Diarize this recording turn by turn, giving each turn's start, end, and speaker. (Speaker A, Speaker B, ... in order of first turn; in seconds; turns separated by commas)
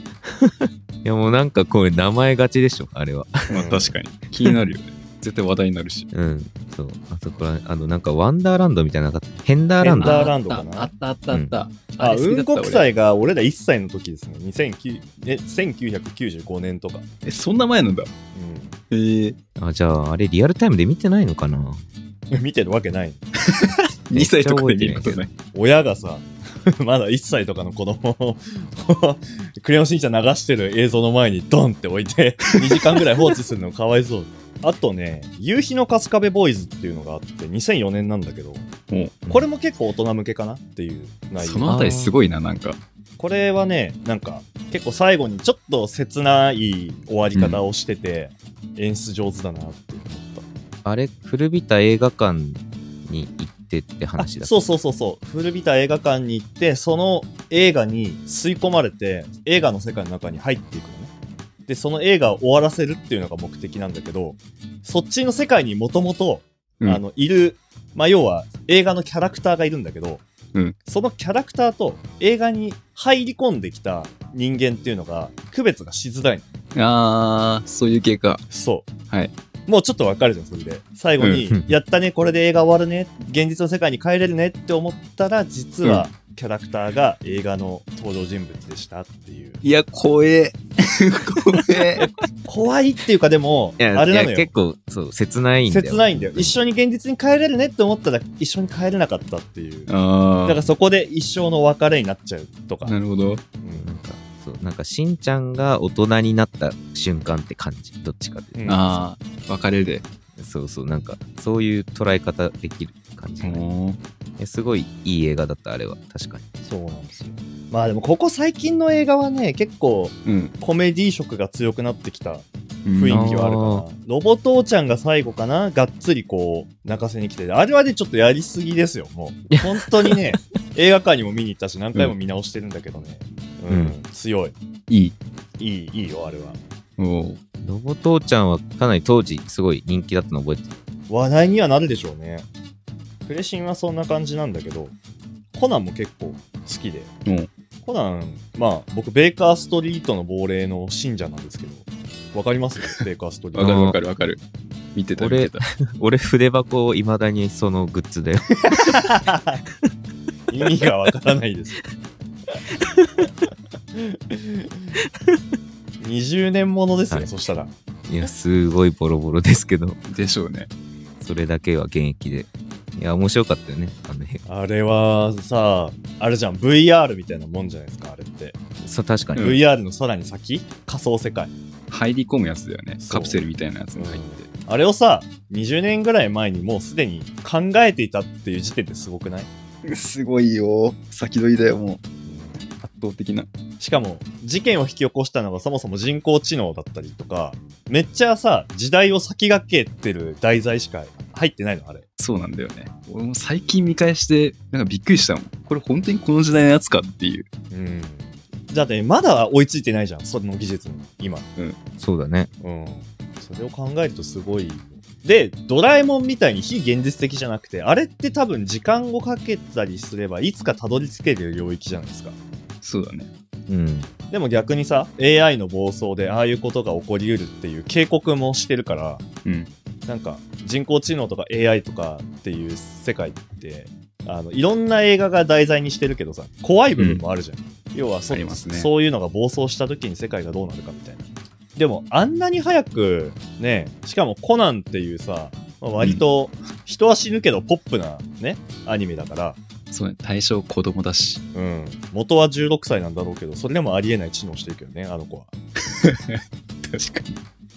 Speaker A: 0.3-3.6, Speaker B: 3.5-3.9, Speaker C: 3.5-6.1, Speaker A: 6.1-10.3, Speaker B: 9.8-10.9, Speaker C: 10.0-12.9, Speaker A: 11.3-11.6, Speaker B: 12.0-17.1, Speaker C: 17.2-18.1, Speaker B: 18.3-18.8, Speaker C: 18.9-19.4, Speaker A: 19.6-21.8, Speaker B: 22.3-23.3, Speaker C: 23.4-25.3, Speaker A: 24.1-25.3, Speaker B: 25.5-38.7, Speaker C: 38.9-39.2, Speaker B: 39.3-41.7, Speaker C: 41.4-42.8, Speaker A: 41.7-42.1, Speaker B: 43.2-50.5, Speaker C: 47.4-47.6, Speaker A: 50.9-54.5, Speaker B: 54.2-61.1, Speaker B: 61.7-70.2, Speaker B: 70.8-76.6, Speaker C: 76.8-78.4, Speaker B: 78.5-78.9, Speaker B: 79.7-89.6, Speaker C: 89.6-92.1, Speaker B: 92.5-94.5, Speaker A: 93.8-96.6, Speaker B: 95.7-99.9, Speaker C: 99.9-100.7, Speaker B: 100.5-103.0, Speaker C: 102.8-103.4, Speaker B: 103.6-103.9, Speaker A: 103.8-109.0, Speaker B: 108.5-108.8, Speaker C: 108.7-110.0, Speaker A: 110.4-113.7, Speaker C: 113.4-114.0, Speaker A: 114.4-116.5, Speaker B: 116.6-134.6, Speaker C: 120.2-120.5, Speaker C: 122.8-123.3, Speaker A: 123.1-123.8, Speaker A: 129.5-130.2, Speaker A: 133.7-134.0, Speaker C: 134.9-135.2, Speaker B: 135.6-136.6, Speaker C: 137.0-137.4, Speaker A: 137.6-140.7, Speaker B: 141.1-142.5, Speaker B: 143.3-145.0, Speaker B: 145.5-147.1, Speaker B: 147.8-153.9, Speaker C: 153.6-154.4, Speaker A: 153.6-154.0, Speaker C: 154.9-155.7, Speaker A: 155.2-158.7, Speaker B: 158.7-159.6, Speaker B: 160.5-161.9, Speaker B: 163.9-164.9, Speaker B: 166.0-167.7, Speaker A: 168.1-170.0, Speaker C: 170.1-170.7, Speaker A: 171.2-174.4, Speaker B: 174.4-178.6, Speaker A: 178.8-179.6, Speaker B: 179.4-181.5, Speaker C: 181.9-184.5, Speaker B: 183.0-183.4, Speaker B: 184.0-189.5, Speaker C: 189.8-192.0, Speaker B: 192.2-192.6, Speaker C: 192.7-193.5, Speaker B: 193.8-202.1, Speaker C: 202.2-207.5, Speaker B: 207.7-211.5, Speaker A: 212.0-212.5, Speaker B: 212.6-222.4, Speaker C: 222.8-223.3, Speaker A: 223.7-224.1, Speaker B: 224.3-229.2, Speaker C: 229.4-229.7, Speaker B: 230.1-249.6, Speaker C: 237.0-237.2, Speaker C: 238.3-238.9, Speaker C: 249.9-251.4, Speaker B: 251.5-255.5, Speaker C: 255.9-257.4